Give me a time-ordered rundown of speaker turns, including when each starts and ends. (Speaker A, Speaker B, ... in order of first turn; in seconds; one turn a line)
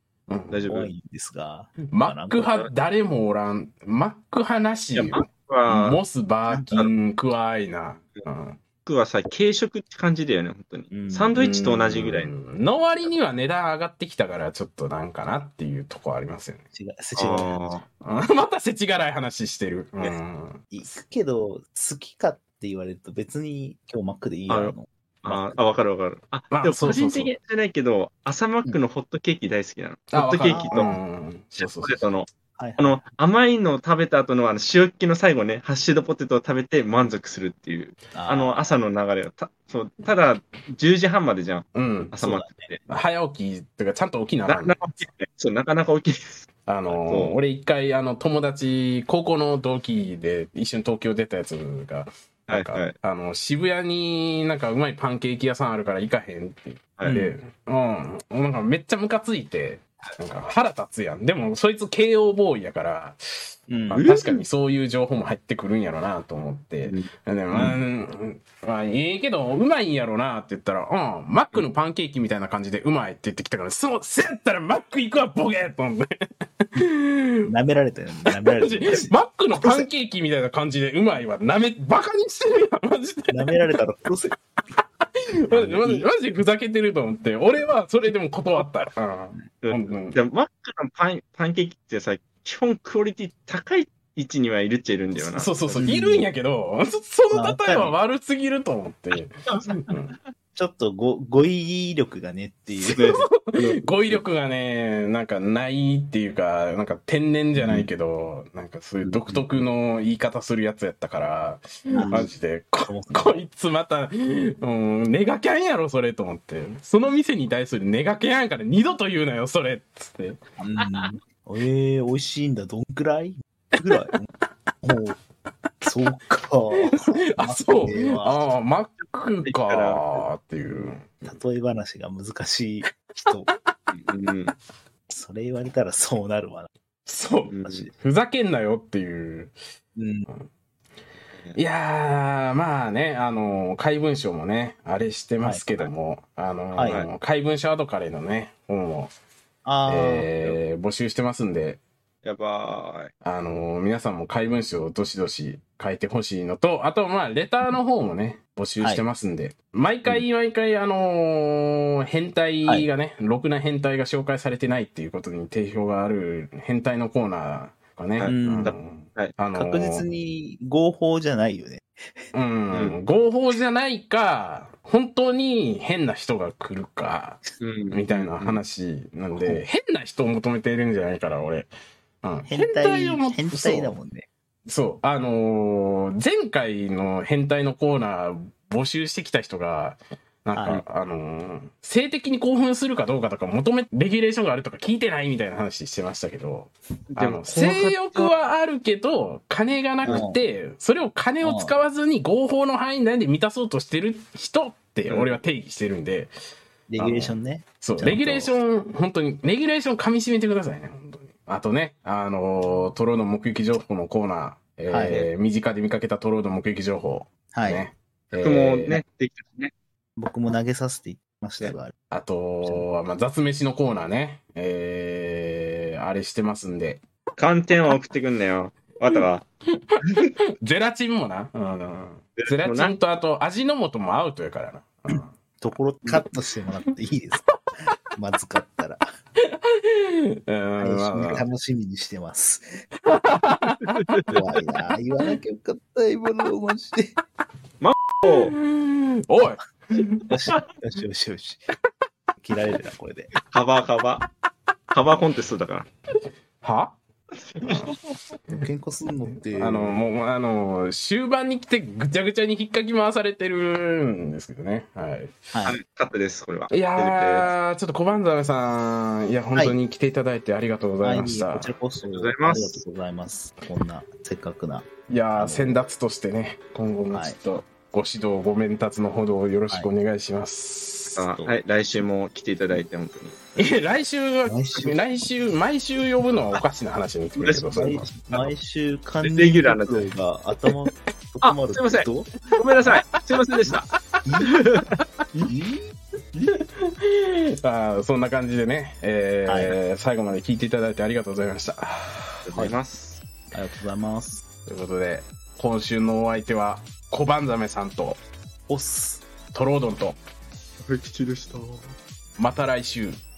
Speaker A: 0.3-0.7
Speaker B: 0.5-0.9
Speaker C: 0.7-2.5
Speaker A: 1.9-8.6
Speaker B: 5.0-6.0
Speaker C: 6.5-6.7
Speaker B: 8.9-12.3
Speaker C: 10.9-11.3
Speaker A: 11.3-16.6
Speaker C: 16.7-17.8
Speaker B: 17.2-17.8
Speaker A: 18.0-20.9
Speaker C: 20.7-25.6
Speaker B: 24.5-31.0
Speaker A: 26.5-27.3
Speaker A: 30.1-32.0
Speaker C: 30.5-31.0
Speaker B: 31.6-32.3
Speaker C: 32.6-33.0
Speaker B: 32.8-42.8
Speaker C: 38.1-38.7
Speaker A: 41.7-42.2
Speaker C: 42.2-42.8
Speaker A: 42.9-45.1
Speaker B: 44.5-47.4
Speaker A: 46.7-77.5
Speaker B: 52.5-52.9
Speaker B: 57.0-57.2
Speaker C: 63.7-64.0
Speaker B: 63.9-64.4
Speaker C: 77.5-79.9
Speaker A: 78.3-83.7
Speaker C: 83.3-84.4
Speaker A: 85.1-90.2
Speaker C: 85.5-86.1
Speaker B: 89.6-95.8
Speaker A: 95.2-100.2
Speaker C: 95.8-96.3
Speaker C: 97.3-98.0
Speaker B: 99.5-100.0
Speaker C: 100.5-103.3
Speaker A: 102.9-120.4
Speaker B: 102.9-104.2
Speaker B: 109.0-109.5
Speaker C: 111.9-112.3
Speaker C: 112.8-113.4
Speaker C: 120.6-124.3
Speaker C: 124.8-125.2
Speaker C: 125.8-128.5
Speaker A: 126.8-131.1
Speaker B: 129.5-130.3
Speaker C: 131.2-133.5
Speaker B: 133.9-134.5
Speaker C: 135.1-136.7
Speaker A: 137.1-139.5
Speaker B: 137.5-137.9
Speaker C: 137.6-137.9
Speaker C: 140.0-140.3
Speaker A: 141.6-149.1
Speaker C: 146.7-147.0
Speaker C: 149.7-150.3
Speaker A: 149.9-151.8
Speaker B: 152.2-153.1
Speaker A: 153.2-170.1
Speaker B: 168.2-169.3
Speaker C: 168.3-168.7
Speaker C: 169.6-172.3
Speaker A: 172.3-181.7
Speaker B: 172.7-173.0
Speaker B: 177.6-178.6
Speaker C: 179.4-179.6
Speaker A: 182.2-184.0
Speaker C: 182.5-184.3
Speaker A: 184.7-206.3
Speaker C: 190.5-190.8
Speaker B: 197.2-198.3
Speaker C: 200.1-200.4
Speaker C: 201.4-201.7
Speaker B: 205.1-205.4
Speaker C: 206.9-208.6
Speaker A: 207.0-219.0
Speaker C: 214.9-215.2
Speaker C: 217.5-217.9
Speaker B: 218.4-219.7
Speaker C: 220.2-221.9
Speaker A: 222.1-227.0
Speaker B: 227.4-229.4
Speaker B: 230.0-230.3
Speaker A: 230.6-235.4
Speaker B: 232.4-233.0
Speaker C: 235.6-239.1
Speaker A: 239.4-241.4
Speaker C: 240.8-242.9
Speaker A: 243.1-244.3
Speaker B: 244.0-244.3
Speaker C: 244.3-247.2
Speaker B: 247.8-248.5
Speaker A: 248.2-250.3
Speaker C: 250.3-251.6
Speaker C: 252.4-253.3
Speaker B: 253.4-254.3
Speaker B: 254.9-255.9
Speaker A: 256.6-257.0
Speaker B: 257.6-258.1
Speaker A: 257.6-257.9
Speaker C: 258.5-260.0
Speaker A: 259.5-265.5
Speaker C: 265.5-265.8
Speaker B: 265.7-267.5
Speaker A: 266.7-271.8
Speaker C: 269.5-269.8
Speaker C: 271.0-275.8
Speaker B: 272.1-272.8
Speaker A: 275.1-281.2
Speaker C: 277.1-277.4
Speaker B: 281.2-283.4
Speaker C: 281.3-281.5
Speaker A: 283.6-288.3
Speaker C: 284.5-284.9
Speaker B: 287.4-288.4
Speaker C: 287.7-292.3
Speaker B: 289.2-290.1
Speaker B: 291.4-293.9
Speaker C: 293.7-294.7
Speaker B: 294.4-295.5
Speaker C: 295.4-295.9
Speaker A: 296.5-302.5
Speaker C: 299.5-299.8
Speaker B: 302.5-303.2
Speaker C: 303.5-304.4
Speaker A: 304.7-308.2
Speaker C: 308.7-309.2
Speaker A: 309.5-310.2
Speaker B: 310.8-311.9
Speaker A: 312.4-313.2